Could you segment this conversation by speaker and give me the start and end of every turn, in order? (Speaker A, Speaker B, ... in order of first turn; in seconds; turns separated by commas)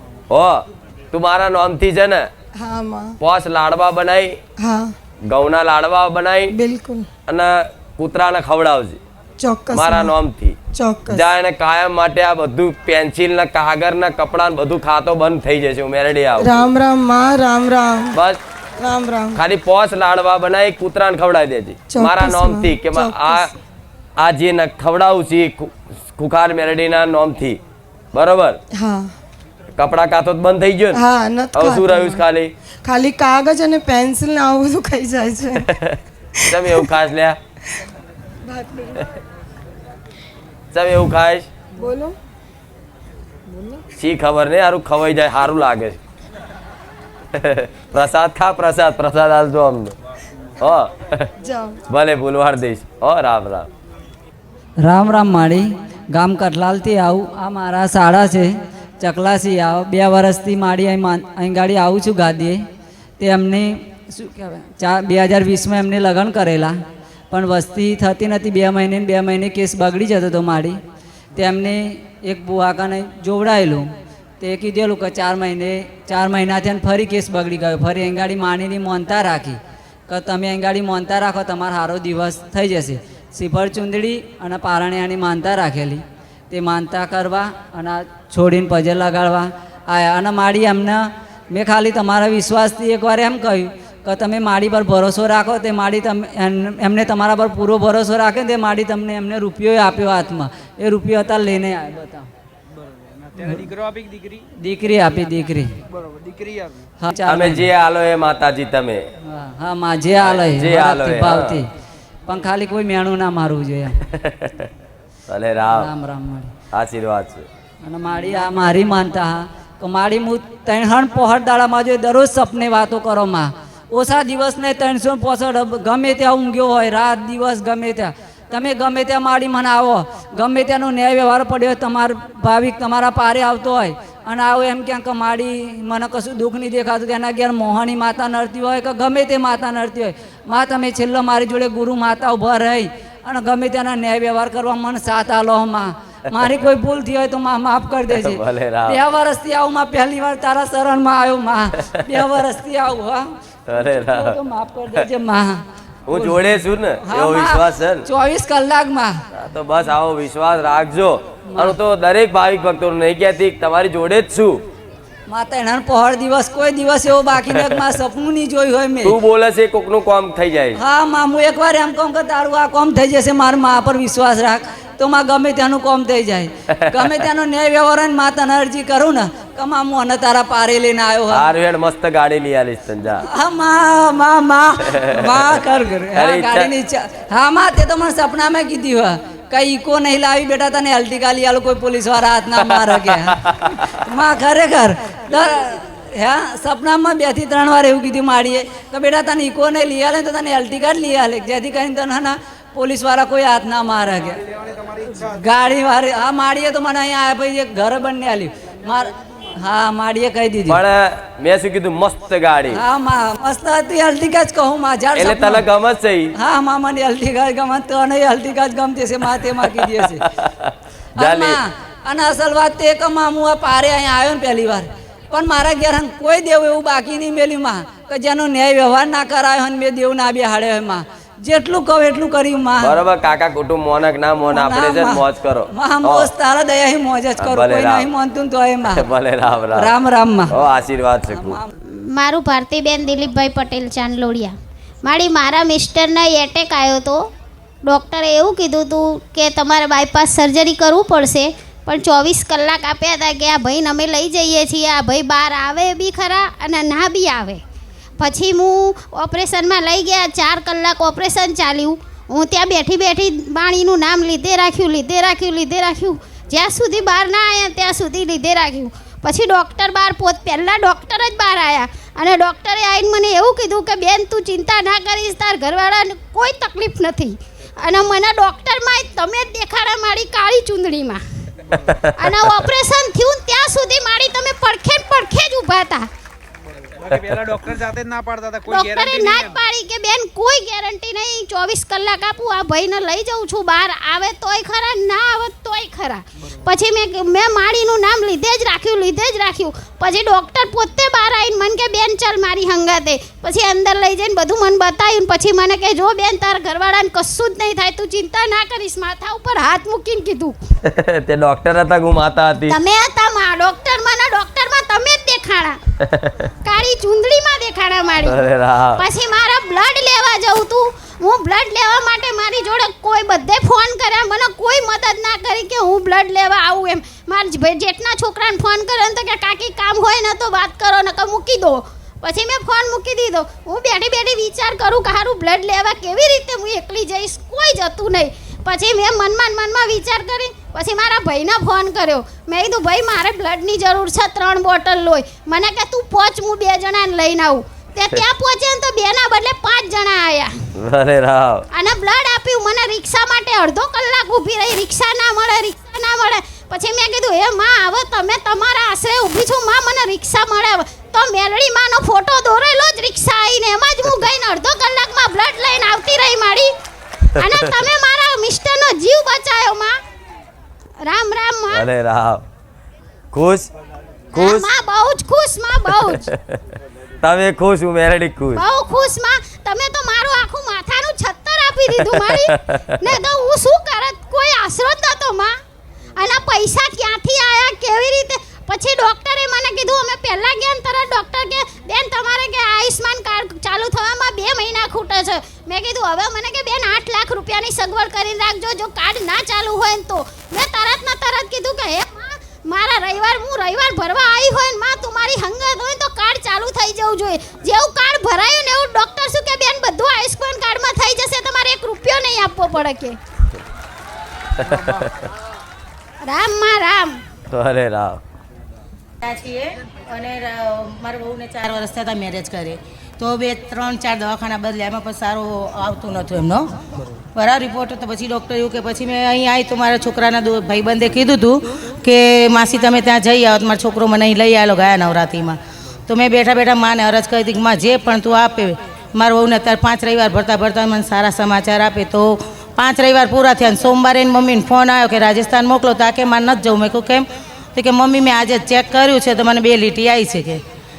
Speaker A: 0.3-2.3, Speaker B: 2.6-3.2, Speaker A: 3.2-4.4, Speaker B: 4.6-4.9, Speaker A: 5.3-6.6, Speaker B: 6.5-7.1, Speaker A: 7.3-9.0, Speaker B: 9.4-10.1, Speaker A: 9.7-10.6, Speaker B: 10.7-11.2, Speaker A: 11.1-16.6, Speaker B: 16.4-18.2, Speaker A: 18.1-18.4, Speaker B: 18.8-19.4, Speaker A: 19.3-23.5, Speaker B: 21.9-23.5, Speaker A: 24.2-27.6, Speaker A: 28.1-28.6, Speaker B: 28.8-29.1, Speaker A: 29.8-31.0, Speaker B: 30.9-32.2, Speaker A: 31.6-32.5, Speaker B: 32.8-35.6, Speaker A: 35.7-36.0, Speaker B: 36.5-36.9, Speaker A: 36.5-37.4, Speaker B: 38.4-39.0, Speaker A: 40.7-41.5, Speaker B: 41.8-42.1, Speaker B: 43.5-43.8, Speaker A: 44.0-46.0, Speaker A: 47.3-49.9, Speaker A: 50.6-51.3, Speaker B: 51.4-51.8, Speaker A: 51.9-53.7, Speaker C: 54.8-62.6, Speaker C: 63.2-66.8, Speaker C: 67.3-70.8, Speaker C: 71.3-73.9, Speaker C: 74.4-102.3, Speaker D: 102.7-104.4, Speaker C: 104.6-105.7, Speaker D: 105.9-106.8, Speaker C: 107.0-107.7, Speaker A: 107.3-109.1, Speaker C: 109.3-111.7, Speaker A: 110.2-111.6, Speaker C: 112.2-114.0, Speaker A: 114.1-114.7, Speaker A: 115.3-115.9, Speaker C: 115.7-116.5, Speaker A: 116.7-117.4, Speaker C: 117.8-156.4, Speaker A: 148.1-149.0, Speaker A: 153.7-154.4, Speaker A: 156.1-158.1, Speaker C: 157.1-159.2, Speaker A: 159.3-164.6, Speaker C: 161.5-161.8, Speaker C: 165.3-169.2, Speaker A: 169.0-170.8, Speaker C: 170.8-181.4, Speaker A: 181.3-183.3, Speaker C: 183.2-204.4, Speaker A: 185.0-185.4, Speaker A: 186.1-186.7, Speaker A: 192.8-193.5, Speaker D: 204.4-205.4, Speaker C: 205.2-210.8, Speaker A: 210.7-212.8, Speaker C: 212.7-215.7, Speaker A: 215.1-216.3, Speaker C: 216.3-220.2, Speaker A: 219.6-221.6, Speaker C: 221.2-232.9, Speaker A: 232.8-236.3, Speaker C: 234.5-239.1, Speaker A: 237.4-238.1, Speaker A: 238.9-239.9, Speaker C: 239.7-240.5, Speaker A: 240.5-241.6, Speaker C: 241.3-241.6, Speaker E: 242.1-247.2, Speaker E: 247.8-257.6, Speaker E: 258.2-281.2, Speaker A: 282.0-282.6, Speaker E: 282.2-286.1, Speaker D: 287.0-289.5, Speaker E: 288.7-310.5, Speaker A: 310.8-312.8, Speaker E: 312.7-315.8, Speaker A: 316.0-316.5, Speaker E: 316.6-318.4, Speaker A: 318.2-319.0, Speaker E: 318.9-350.5, Speaker A: 350.8-351.6, Speaker E: 351.7-366.7, Speaker E: 367.3-369.9, Speaker E: 371.0-371.9, Speaker A: 371.7-372.4, Speaker A: 373.3-373.7, Speaker E: 374.3-376.3, Speaker A: 374.4-374.7, Speaker A: 377.2-378.6, Speaker E: 378.5-385.5, Speaker A: 382.3-382.8, Speaker E: 386.2-413.2, Speaker A: 414.6-415.1, Speaker E: 416.2-417.2, Speaker A: 417.5-418.2, Speaker F: 419.2-426.7, Speaker F: 427.4-450.6